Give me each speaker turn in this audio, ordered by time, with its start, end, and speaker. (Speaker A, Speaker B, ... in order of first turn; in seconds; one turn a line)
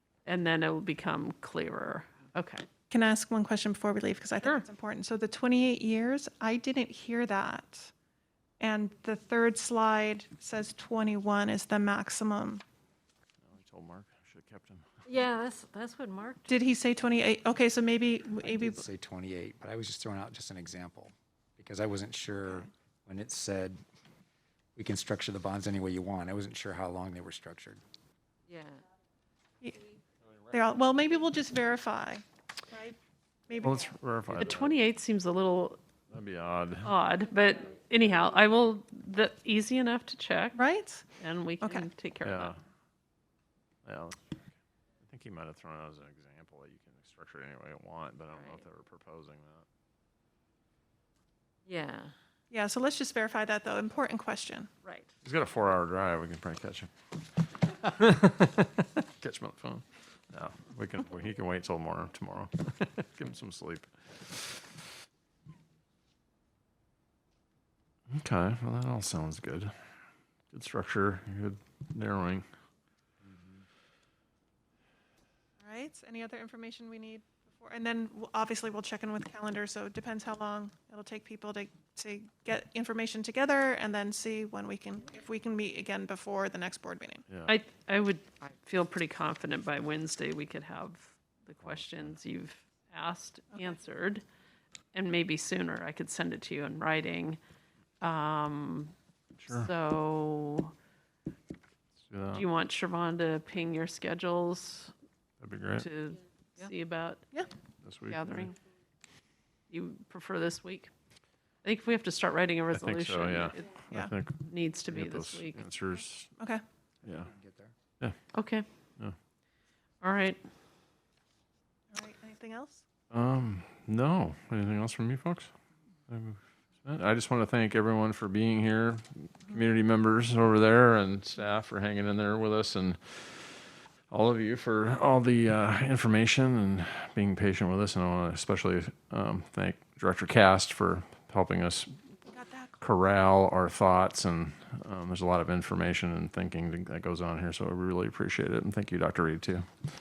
Speaker A: 0.2-2.6
Speaker B: 2.9-7.9
Speaker B: 8.6-12.6
Speaker C: 13.4-14.8
Speaker D: 15.1-16.5
Speaker B: 16.5-18.8
Speaker E: 18.4-23.8
Speaker E: 24.8-27.8
Speaker D: 28.5-28.8
Speaker B: 29.6-29.9
Speaker B: 30.5-33.0
Speaker B: 33.5-34.0
Speaker C: 33.6-34.8
Speaker A: 34.3-35.8
Speaker C: 36.1-36.9
Speaker A: 36.8-40.6
Speaker B: 40.5-41.0
Speaker A: 41.2-42.5
Speaker B: 41.6-41.9
Speaker C: 42.2-42.6
Speaker C: 43.8-44.2
Speaker C: 45.0-49.6
Speaker D: 48.3-48.6
Speaker D: 51.7-52.1
Speaker B: 52.5-54.7
Speaker D: 54.8-55.1
Speaker C: 55.2-64.6
Speaker C: 68.1-69.7
Speaker C: 70.5-72.4
Speaker E: 73.2-73.6
Speaker B: 75.6-87.2
Speaker C: 87.3-87.5
Speaker A: 87.5-94.2
Speaker C: 91.6-92.1
Speaker A: 94.9-97.4
Speaker A: 98.0-98.9
Speaker C: 99.4-99.7
Speaker A: 99.5-100.7
Speaker C: 102.1-102.4
Speaker A: 102.3-104.9
Speaker C: 105.4-105.9
Speaker A: 105.8-107.2
Speaker C: 107.8-108.5
Speaker A: 108.1-108.5
Speaker A: 109.7-110.9
Speaker A: 111.6-113.7
Speaker C: 112.7-116.3
Speaker A: 114.4-115.6
Speaker C: 117.0-117.3
Speaker E: 117.1-117.7
Speaker D: 118.4-118.6
Speaker A: 120.0-120.4
Speaker B: 121.9-122.8
Speaker C: 123.1-125.5
Speaker C: 126.1-141.9
Speaker B: 142.3-142.7
Speaker C: 142.8-149.7